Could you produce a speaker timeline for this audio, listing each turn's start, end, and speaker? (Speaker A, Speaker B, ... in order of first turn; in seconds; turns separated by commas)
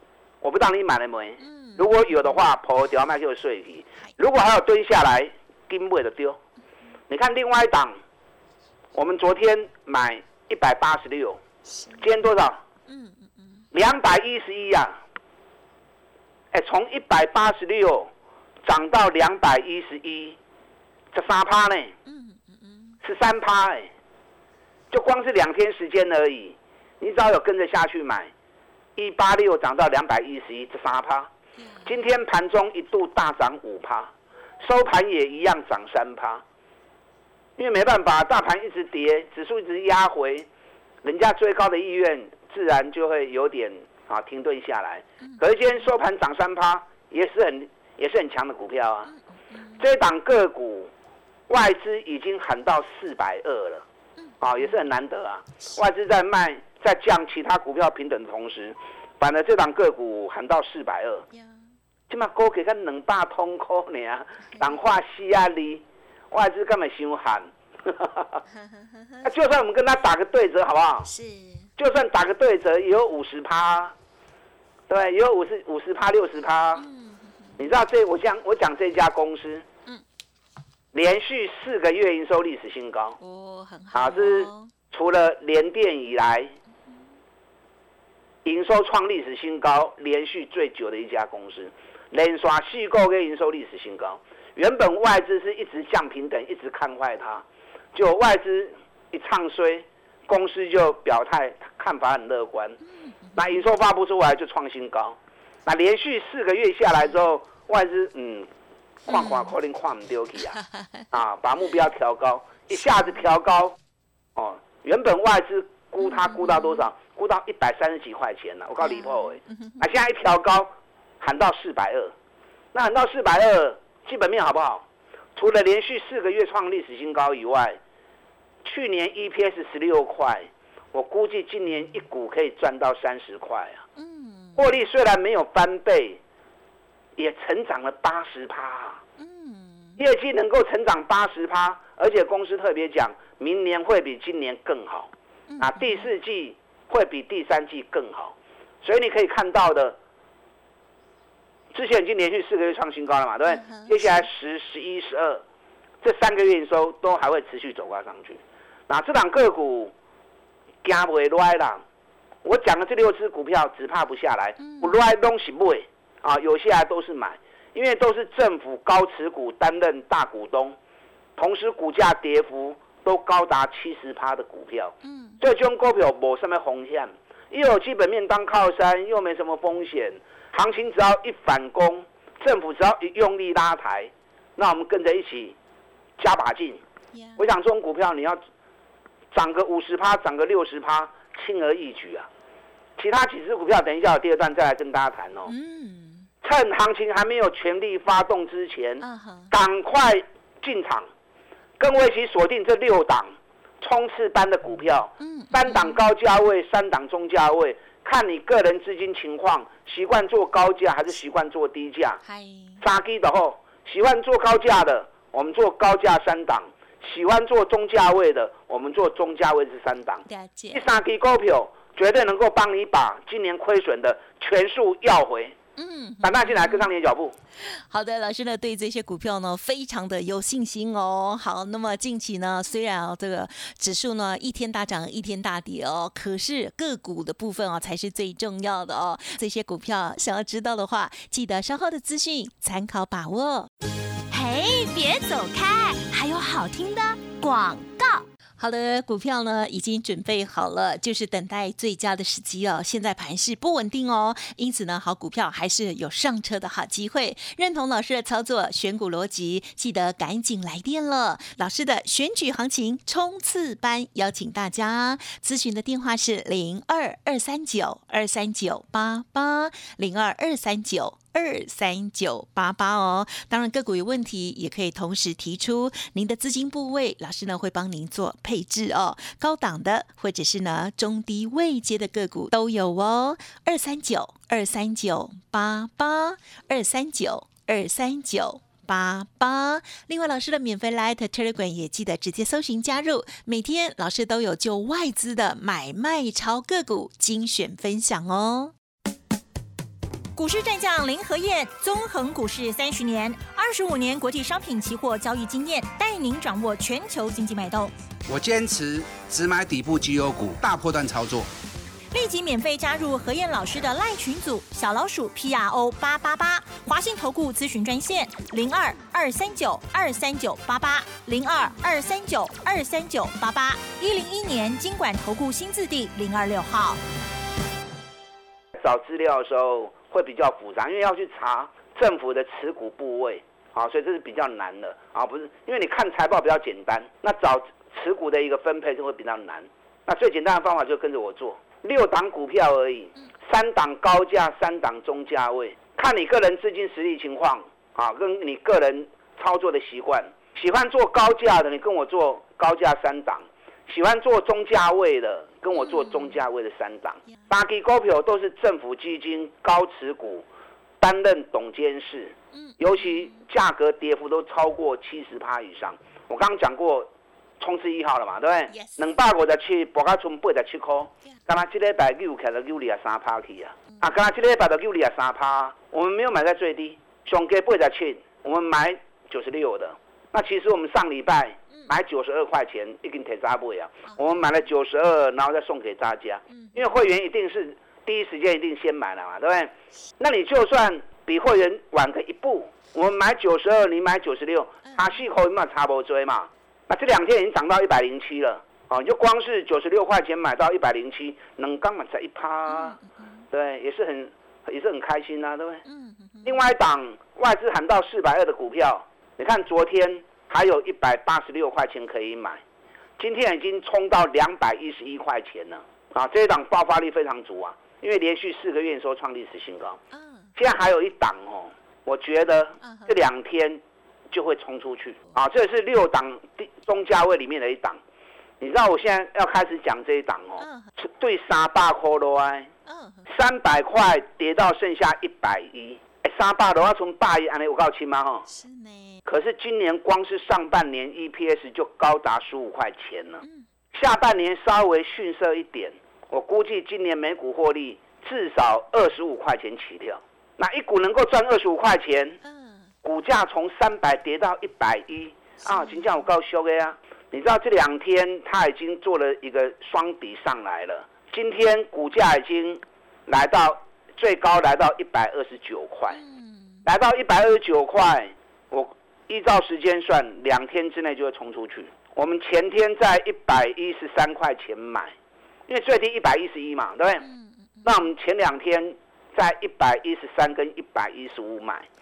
Speaker A: 0.4-6.4, Speaker B: 1.4-2.5, Speaker A: 7.1-8.0, Speaker A: 8.9-11.4, Speaker B: 11.7-12.0, Speaker A: 12.0-12.6, Speaker B: 12.9-13.7, Speaker A: 13.7-15.0, Speaker A: 16.5-18.1, Speaker A: 18.6-20.4, Speaker A: 21.1-21.9, Speaker B: 22.1-23.0, Speaker A: 23.0-23.9, Speaker A: 24.9-28.3, Speaker A: 29.0-31.3, Speaker B: 31.6-32.1, Speaker A: 31.9-34.1, Speaker A: 34.6-36.4, Speaker A: 37.6-40.5, Speaker A: 41.0-49.1, Speaker B: 49.1-49.8, Speaker A: 49.8-50.9, Speaker A: 51.5-53.8, Speaker B: 54.2-54.7, Speaker A: 54.4-61.2, Speaker A: 62.1-68.4, Speaker A: 69.2-71.1, Speaker B: 71.0-71.7, Speaker A: 71.8-73.9, Speaker A: 74.9-76.8, Speaker B: 76.8-77.6, Speaker A: 77.6-79.7, Speaker A: 80.9-83.2, Speaker B: 83.2-84.7, Speaker A: 83.9-86.5, Speaker A: 88.4-102.8, Speaker B: 103.0-103.7, Speaker A: 103.4-108.5, Speaker A: 109.1-110.6, Speaker B: 109.1-109.5, Speaker A: 111.1-113.8, Speaker A: 114.4-122.1, Speaker B: 116.0-116.9, Speaker B: 118.8-119.8, Speaker A: 122.7-124.8, Speaker A: 125.4-127.8, Speaker A: 128.7-133.8, Speaker B: 134.0-134.7, Speaker A: 134.6-136.2, Speaker A: 137.2-139.0, Speaker B: 139.2-140.0, Speaker A: 140.0-150.0, Speaker B: 145.5-146.1, Speaker A: 151.7-155.4, Speaker B: 153.5-154.2, Speaker A: 156.0-159.9, Speaker A: 160.8-161.8, Speaker A: 162.4-170.8, Speaker B: 164.6-165.0, Speaker A: 171.4-185.6, Speaker B: 175.0-175.4, Speaker A: 186.2-186.8, Speaker B: 187.1-187.4, Speaker A: 187.4-188.4, Speaker A: 189.3-192.3, Speaker A: 193.0-195.5, Speaker B: 195.5-196.3, Speaker A: 196.4-201.1, Speaker B: 199.0-199.5, Speaker A: 201.8-212.2, Speaker B: 205.2-206.0, Speaker B: 212.2-212.8, Speaker A: 212.8-225.6, Speaker B: 220.3-220.9, Speaker B: 225.8-226.9, Speaker A: 226.2-227.3, Speaker B: 227.6-243.7, Speaker B: 244.3-298.7, Speaker C: 300.4-307.9, Speaker D: 308.3-311.5, Speaker C: 312.1-327.0, Speaker A: 328.8-360.5, Speaker A: 361.0-367.1, Speaker B: 362.5-363.4, Speaker A: 367.6-403.0, Speaker B: 368.7-369.0, Speaker B: 386.5-386.9, Speaker B: 402.7-403.4, Speaker A: 403.5-405.8, Speaker B: 405.9-406.7, Speaker A: 406.4-412.6, Speaker A: 413.2-420.0, Speaker B: 420.1-420.5, Speaker A: 420.6-423.8, Speaker B: 422.8-423.2, Speaker A: 424.3-428.0, Speaker A: 428.6-432.7, Speaker B: 430.6-430.9, Speaker B: 432.9-433.2, Speaker A: 433.3-438.4, Speaker B: 438.5-439.2, Speaker A: 439.3-452.4, Speaker B: 452.4-452.9, Speaker A: 453.0-466.2, Speaker B: 455.6-456.2, Speaker B: 466.1-466.8, Speaker A: 466.9-475.1, Speaker A: 475.7-477.3, Speaker B: 477.2-478.0, Speaker A: 477.8-481.9